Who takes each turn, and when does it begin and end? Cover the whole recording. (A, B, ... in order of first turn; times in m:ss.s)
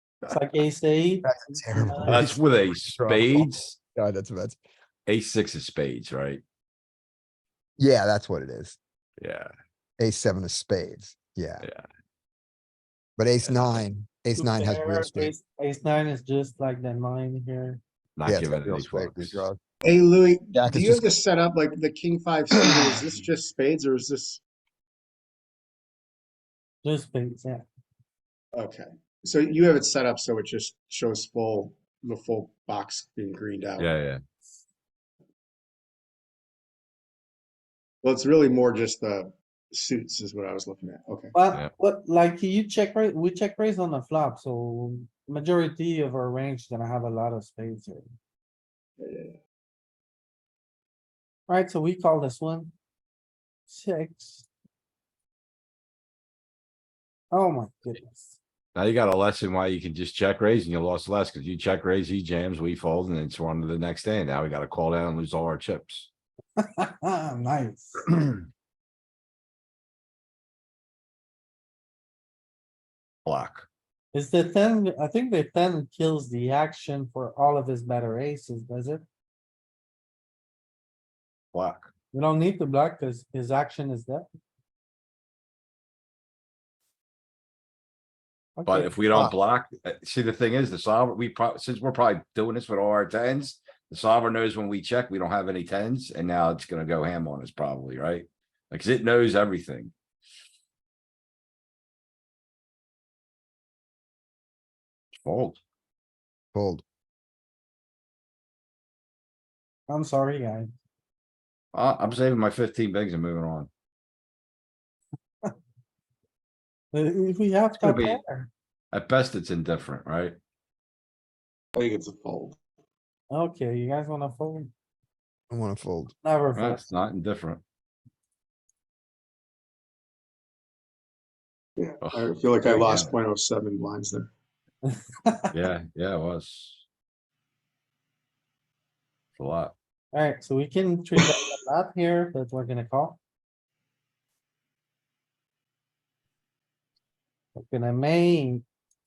0:00.2-0:02.3 A
0:01.2-0:02.4 B
0:02.0-0:03.8 C
0:03.0-0:04.6 B
0:05.1-0:06.4 C
0:07.8-0:08.8 B
0:09.2-0:09.5 C
0:10.0-0:11.6 B
0:13.2-0:15.3 B
0:13.4-0:13.8 C
0:14.4-0:17.8 A
0:18.2-0:19.5 C
0:18.2-0:19.6 B
0:19.8-0:24.4 D
0:20.5-0:21.0 B
0:26.8-0:27.6 A
0:28.5-0:33.9 D
0:33.8-0:34.2 C
0:38.0-0:41.3 D
0:41.3-0:48.0 A
0:49.0-0:49.4 D
0:51.5-0:52.7 A
0:53.7-0:54.5 A
0:57.3-0:58.4 A
0:58.7-1:06.1 C
1:06.6-1:08.1 A
1:13.2-1:13.6 C
1:14.1-1:19.0 A
1:21.5-1:21.9 C
1:22.1-1:24.3 A
1:28.6-1:29.3 A
1:28.6-1:39.9 C
1:45.1-1:45.6 C
1:46.5-1:46.8 B
1:49.9-1:50.7 A
1:51.7-1:53.7 C
1:56.9-1:58.5 A
1:57.8-1:58.2 C
1:58.9-2:00.4 C
2:01.7-2:02.6 D
2:03.3-2:04.7 A
2:05.5-2:06.1 B
2:06.2-2:06.8 A
2:06.5-2:07.6 C
2:11.8-2:14.3 D
2:12.0-2:13.1 C
2:14.8-2:15.5 A
2:15.5-2:16.8 C
2:19.4-2:19.7 C
2:20.1-2:23.2 A
2:27.6-2:28.6 A